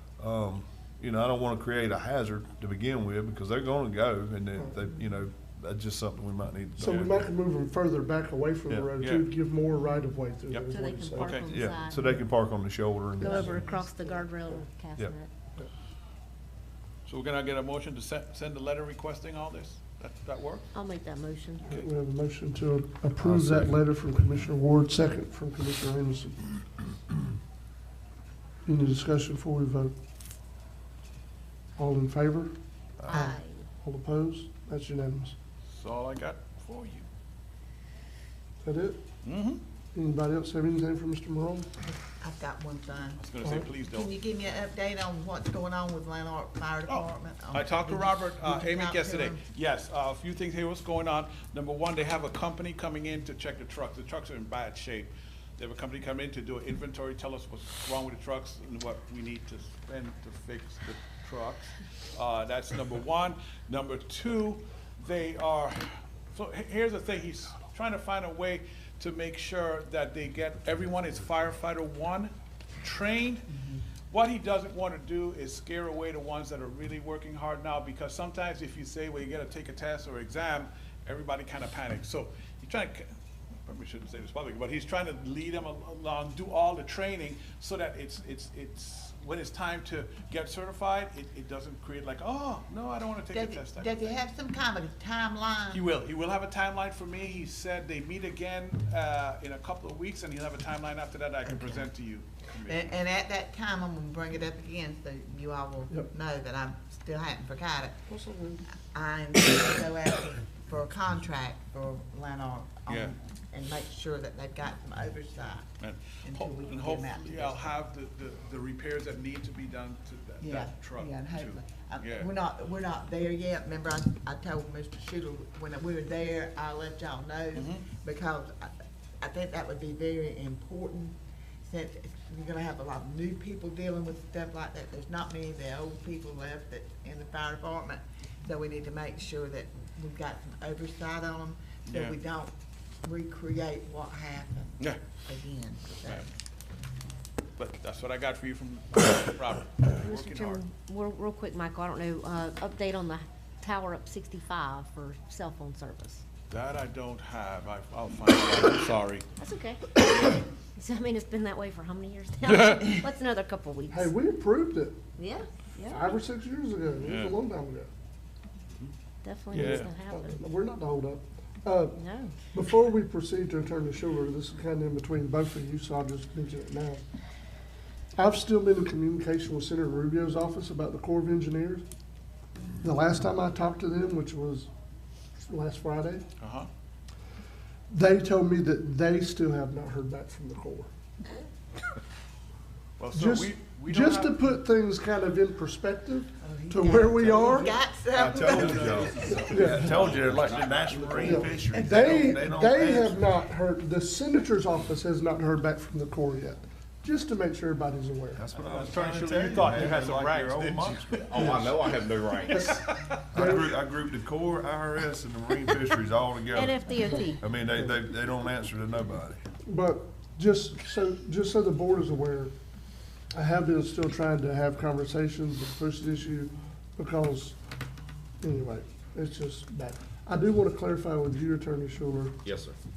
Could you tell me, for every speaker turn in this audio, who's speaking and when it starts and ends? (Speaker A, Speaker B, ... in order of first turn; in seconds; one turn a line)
Speaker A: 0.2-7.2
Speaker B: 6.8-11.4
Speaker C: 6.8-7.1
Speaker C: 9.0-9.3
Speaker C: 10.5-11.5
Speaker D: 10.7-12.1
Speaker A: 11.5-13.6
Speaker D: 13.2-15.3
Speaker B: 13.2-14.6
Speaker C: 17.1-20.7
Speaker D: 20.7-21.7
Speaker B: 21.7-26.6
Speaker A: 23.2-23.7
Speaker B: 28.6-29.9
Speaker B: 31.8-32.5
Speaker E: 33.1-33.4
Speaker D: 33.1-33.6
Speaker B: 33.8-35.4
Speaker C: 35.7-37.0
Speaker B: 38.6-39.0
Speaker C: 39.2-39.6
Speaker B: 39.9-41.7
Speaker E: 41.9-49.4
Speaker C: 43.2-44.1
Speaker C: 46.9-73.5
Speaker E: 73.5-73.8
Speaker C: 74.1-83.1
Speaker C: 83.7-94.2
Speaker E: 93.3-95.8
Speaker C: 95.7-103.0
Speaker E: 101.5-101.8
Speaker E: 102.7-108.0
Speaker B: 108.1-108.6
Speaker E: 108.9-115.7
Speaker C: 112.9-113.1
Speaker C: 115.8-122.3
Speaker E: 116.2-117.7
Speaker E: 120.4-142.5
Speaker C: 127.5-127.8
Speaker C: 141.8-142.2
Speaker E: 143.0-146.3
Speaker C: 146.0-146.3
Speaker C: 147.6-150.6
Speaker D: 150.0-156.2
Speaker C: 156.5-159.2
Speaker D: 159.4-164.1
Speaker B: 163.9-165.0
Speaker D: 165.2-166.0
Speaker B: 165.8-167.9
Speaker C: 167.0-167.4
Speaker D: 169.2-170.4
Speaker C: 169.5-169.9
Speaker B: 169.5-172.0
Speaker D: 172.0-172.3
Speaker B: 172.5-177.0
Speaker B: 178.2-181.8
Speaker B: 182.8-184.7
Speaker B: 185.4-186.2
Speaker C: 186.4-186.7
Speaker B: 187.9-190.9
Speaker C: 193.0-194.4
Speaker B: 193.1-197.8
Speaker E: 196.4-200.0
Speaker A: 198.1-203.2
Speaker C: 198.3-201.5
Speaker B: 199.5-200.1
Speaker F: 199.9-201.4
Speaker B: 201.2-208.4
Speaker E: 201.4-202.1
Speaker A: 208.3-211.7
Speaker C: 208.6-211.7
Speaker F: 211.2-212.7
Speaker C: 212.4-213.2
Speaker B: 212.5-213.7
Speaker A: 213.3-219.4
Speaker D: 216.5-217.4
Speaker B: 219.6-222.5
Speaker B: 223.3-227.6
Speaker B: 228.4-232.4
Speaker F: 232.4-232.8